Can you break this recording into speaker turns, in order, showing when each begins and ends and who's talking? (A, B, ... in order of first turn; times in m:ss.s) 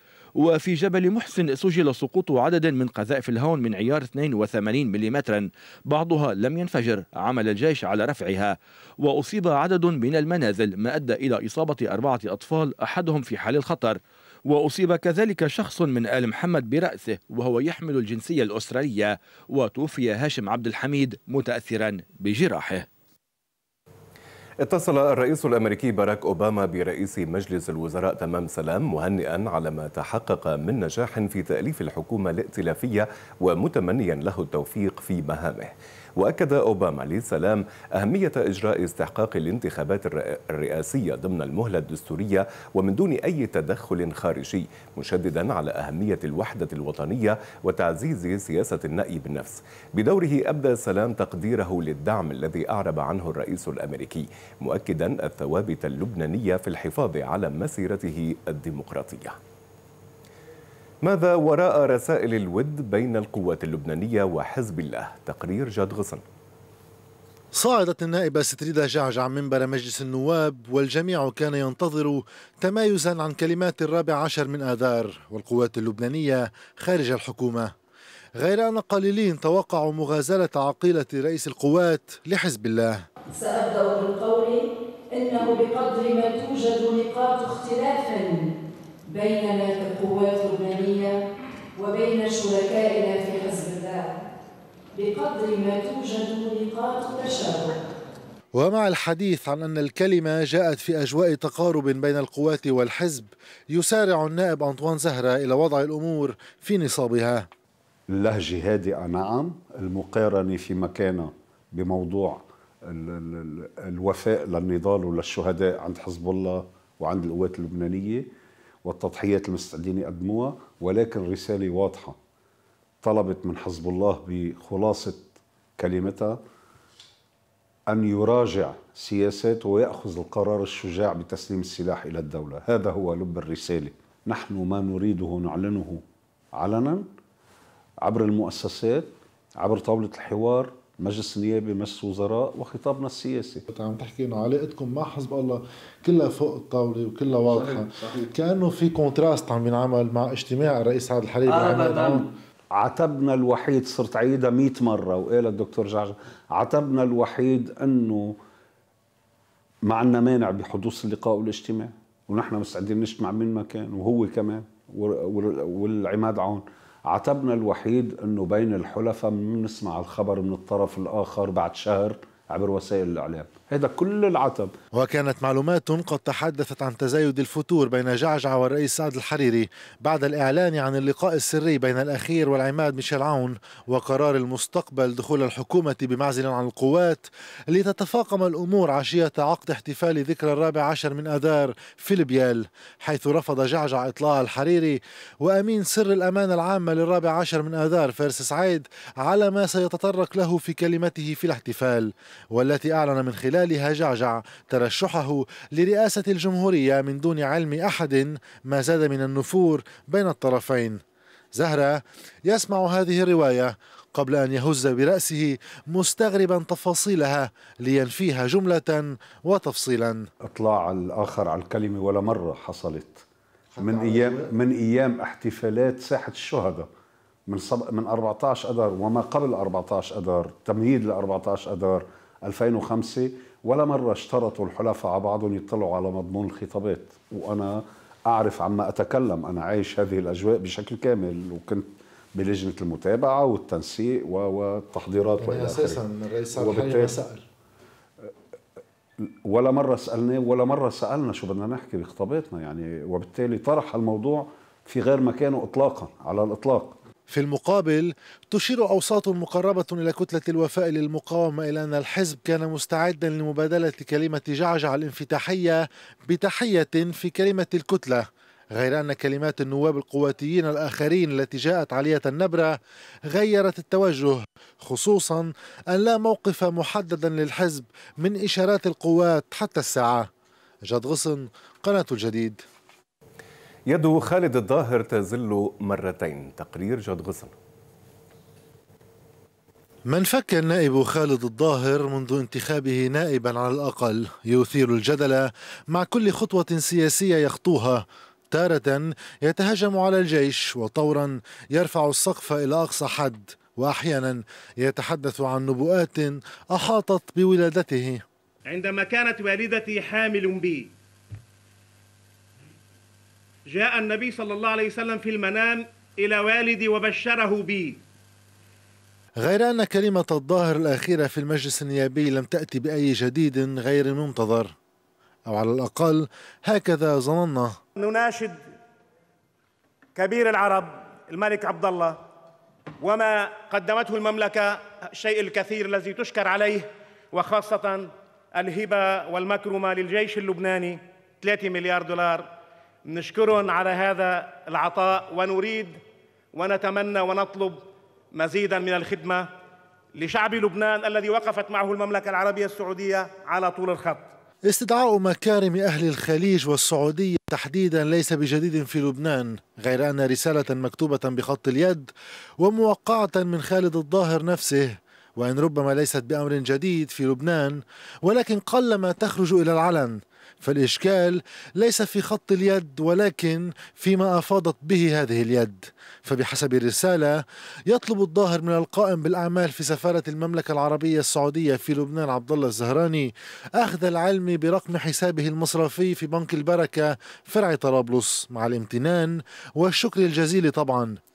0:00.4-0:22.9 A
0:24.6-0:59.4 B
1:01.0-1:06.2 B
1:07.5-1:17.7 C
1:18.4-1:23.0 C
1:23.6-1:24.6 D
1:25.2-1:28.3 D
1:29.2-1:31.1 D
1:31.8-1:34.1 D
1:35.0-1:37.7 D
1:38.6-1:47.5 C
1:48.1-1:58.3 E
1:58.8-2:02.2 E
2:03.0-2:06.4 E
2:07.9-2:16.0 E
2:16.6-2:17.1 E
2:18.0-2:23.6 E
2:23.7-2:32.3 C
2:32.8-2:38.3 E
2:39.9-2:54.7 E
2:55.0-3:31.0 C
3:31.6-3:40.2 C
3:40.4-3:43.2 E
3:43.8-3:44.6 C
3:43.8-3:46.9 E
3:47.5-4:06.0 E
4:05.4-4:07.4 C
4:06.6-4:07.2 E
4:09.2-4:17.0 E
4:17.3-4:28.2 C
4:28.8-4:32.8 C
4:33.3-4:40.3 C
4:40.9-4:42.6 C
4:43.9-4:47.5 B
4:50.1-5:08.2 C
5:08.7-5:10.9 F
5:13.7-5:18.0 F
5:19.4-5:24.7 C
5:25.5-5:27.8 C
5:28.0-5:28.7 F
5:30.2-5:32.2 F
5:33.0-5:42.5 F
5:43.1-5:46.0 F
5:46.6-5:47.8 F
5:48.4-5:49.4 F
5:50.2-5:54.3 F
5:54.7-6:31.2 C